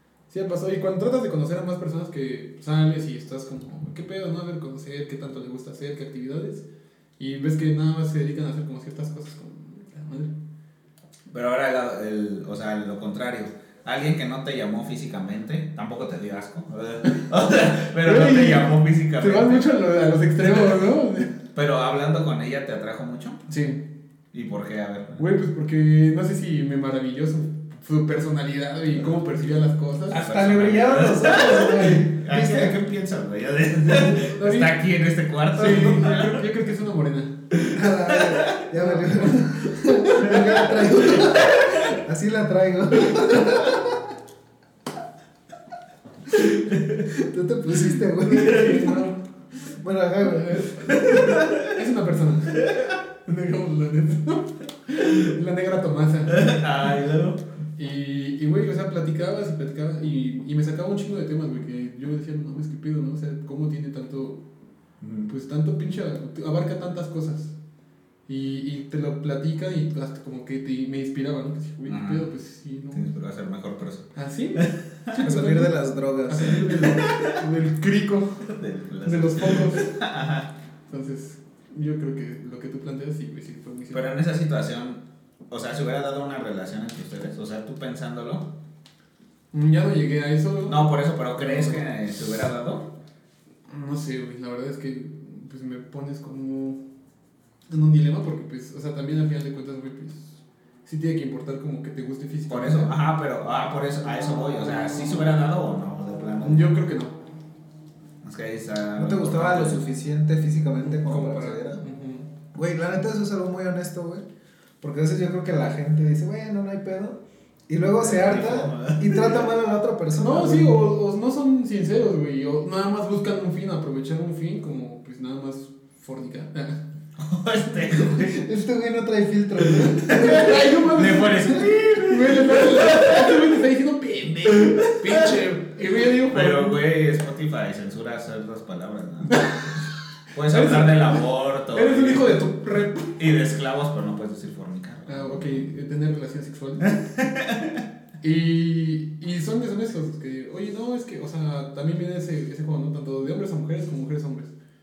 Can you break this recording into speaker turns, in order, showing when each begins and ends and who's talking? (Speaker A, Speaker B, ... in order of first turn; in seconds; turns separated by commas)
Speaker A: 0.3-6.6, Speaker A: 7.2-10.3, Speaker B: 11.3-19.7, Speaker A: 18.0-21.3, Speaker B: 21.5-23.4, Speaker A: 23.5-23.8, Speaker B: 24.3-25.2, Speaker A: 25.1-30.2, Speaker B: 30.1-36.4, Speaker C: 30.1-32.8, Speaker A: 33.9-34.7, Speaker A: 35.5-37.4, Speaker B: 37.5-38.7, Speaker C: 37.7-44.0, Speaker A: 38.8-39.3, Speaker B: 40.2-41.8, Speaker B: 46.4-47.1, Speaker C: 47.1-51.3, Speaker B: 48.3-49.0, Speaker B: 50.7-51.8, Speaker A: 51.6-52.6, Speaker B: 52.5-53.0, Speaker A: 53.2-56.5, Speaker B: 56.3-57.4, Speaker A: 57.8-64.4, Speaker B: 65.0-65.3, Speaker A: 65.3-67.5, Speaker A: 68.3-73.1, Speaker B: 71.8-72.3, Speaker B: 72.9-75.2, Speaker A: 74.1-75.7, Speaker C: 75.2-76.6, Speaker A: 76.3-78.5, Speaker B: 76.6-77.4, Speaker B: 78.5-80.5, Speaker A: 79.0-79.8, Speaker A: 80.9-84.1, Speaker B: 83.9-88.5, Speaker A: 89.5-90.8, Speaker B: 90.7-92.9, Speaker A: 91.3-91.8, Speaker A: 93.7-96.8, Speaker A: 97.7-102.9, Speaker B: 102.5-106.7, Speaker A: 106.4-107.2, Speaker B: 108.2-109.8, Speaker C: 109.0-111.8, Speaker A: 110.8-112.3, Speaker C: 112.5-114.2, Speaker C: 114.8-120.8, Speaker B: 118.0-119.4, Speaker A: 120.2-126.8, Speaker B: 127.2-128.4, Speaker C: 127.9-130.6, Speaker B: 129.8-133.5, Speaker A: 130.1-131.5, Speaker A: 132.0-136.8, Speaker B: 134.4-135.4, Speaker B: 136.2-139.4, Speaker A: 139.3-139.8, Speaker B: 140.3-142.4, Speaker A: 140.4-143.3, Speaker B: 143.2-145.7, Speaker A: 145.1-147.0, Speaker B: 146.8-147.8, Speaker A: 148.2-154.5